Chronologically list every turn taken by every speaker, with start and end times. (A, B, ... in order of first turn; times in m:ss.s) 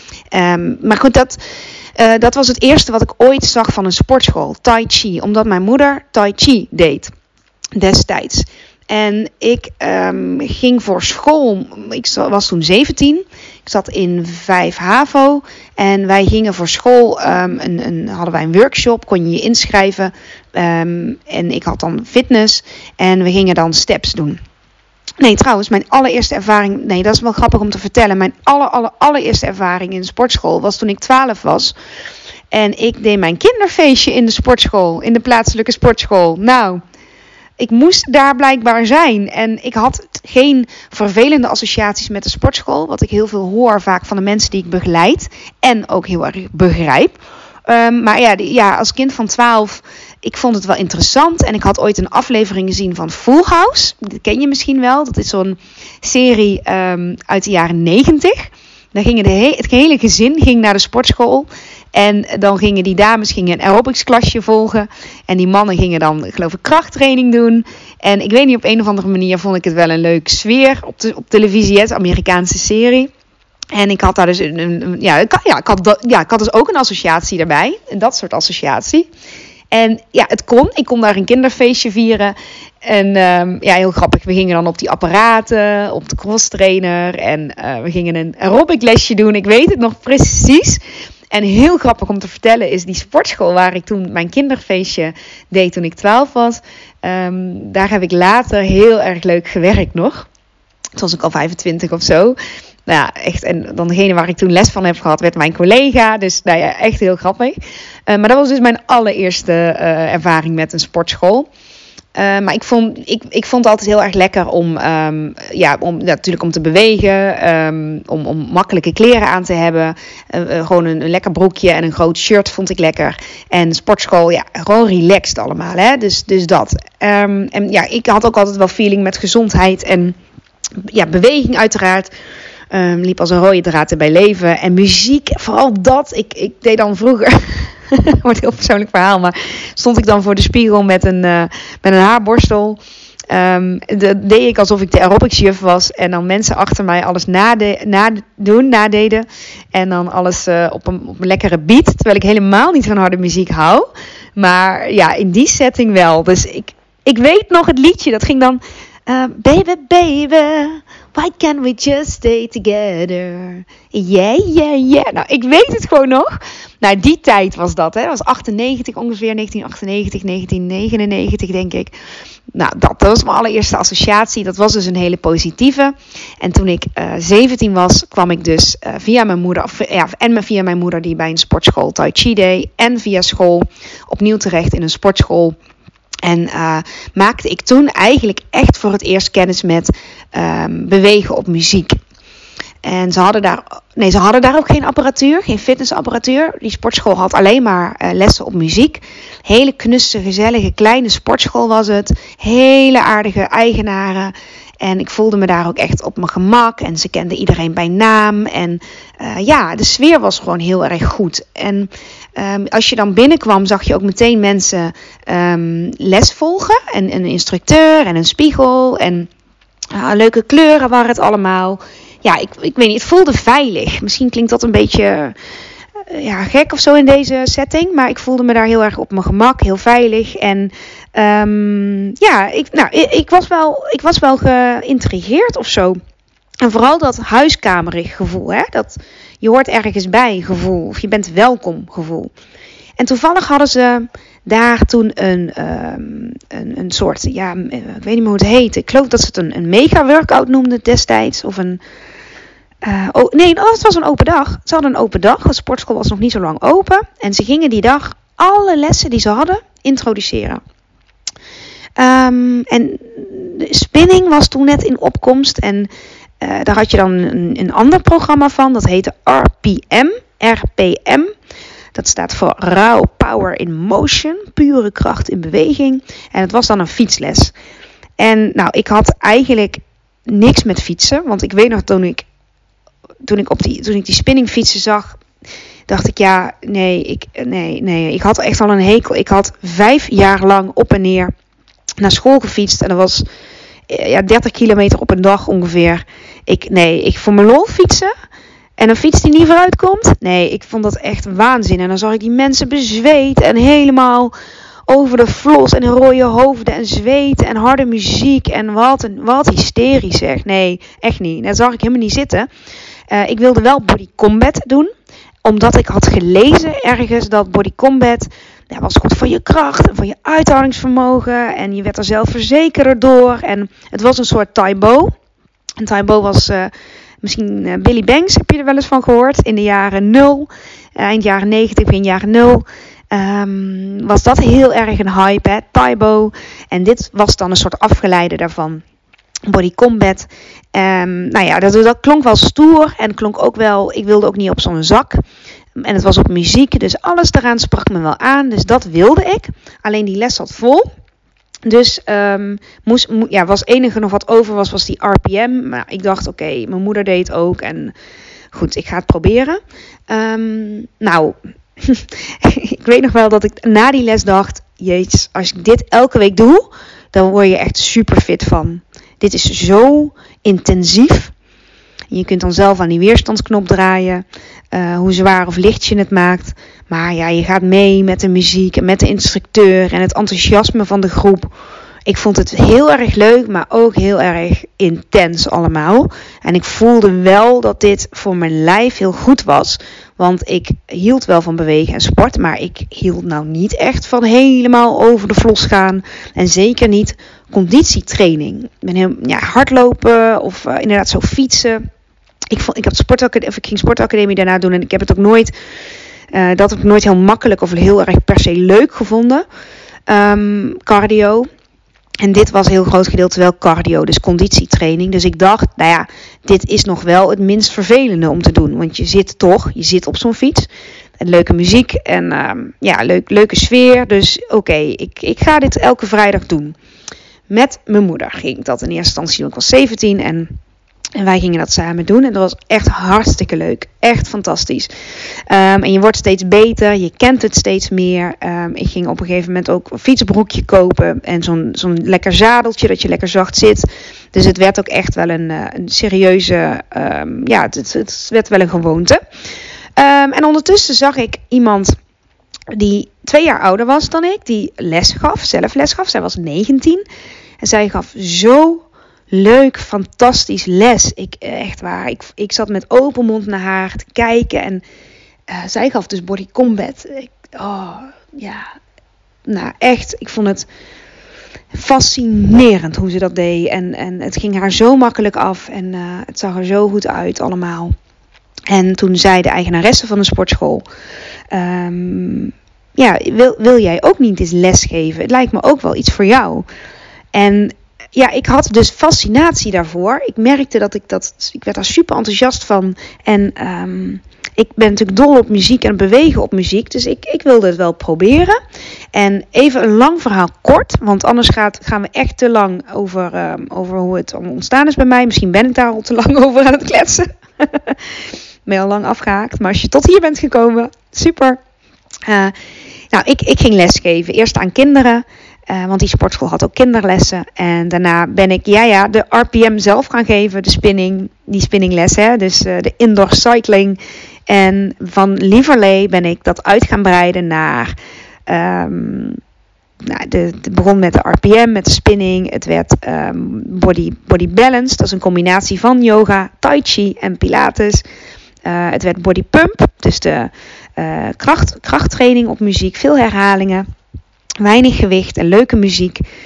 0:00.3-0:01.4 A
0:02.0-0:07.1 A
0:07.8-0:24.4 A
0:25.2-0:31.7 A
0:32.5-0:36.8 A
0:37.6-1:13.1 A
1:13.7-1:19.1 A
1:19.7-1:30.8 A
1:31.3-1:40.3 A
1:41.0-1:42.4 A
1:42.9-1:47.6 A
1:48.1-1:51.5 A
1:52.2-2:10.2 A
2:10.8-2:12.1 A
2:12.7-2:46.3 A
2:46.8-2:51.9 A
2:52.5-3:05.6 A
3:06.2-3:12.0 A
3:12.8-3:39.3 A
3:39.9-3:45.4 A
3:46.1-3:56.0 A
3:56.6-4:02.3 A
4:03.0-4:11.8 A
4:12.8-4:20.6 A
4:22.0-4:31.3 A
4:31.9-4:37.5 A
4:38.2-4:42.3 A
4:43.2-4:45.2 A
4:45.9-4:51.3 A
4:52.0-4:53.3 A
4:53.9-4:58.1 A
4:58.8-5:04.3 A
5:04.9-5:12.5 A
5:13.1-5:14.9 A
5:15.4-5:25.1 A
5:25.8-5:38.8 A
5:39.5-5:45.2 A
5:45.8-5:50.9 A
5:51.6-5:57.9 A
5:58.5-6:11.3 A
6:12.1-6:21.5 A
6:22.1-6:41.8 A
6:42.5-6:45.5 A
6:46.3-6:49.4 A
6:50.1-6:51.5 A
6:52.2-7:00.7 A
7:01.2-7:06.8 A
7:07.5-7:10.6 A
7:11.2-7:14.9 A
7:15.5-7:29.2 A
7:30.0-7:32.0 A
7:32.7-7:37.0 A
7:37.6-7:44.8 A
7:45.5-7:48.7 A
7:49.5-7:50.7 A
7:51.7-7:57.9 A
7:58.7-8:00.9 A
8:01.5-8:06.7 A
8:07.3-8:18.6 A
8:19.1-8:28.0 A
8:28.7-8:31.6 A
8:32.3-8:32.6 A
8:33.1-8:47.9 A
8:48.5-8:49.4 A
8:50.0-8:58.0 A
8:58.6-9:03.8 A
9:04.6-9:06.2 A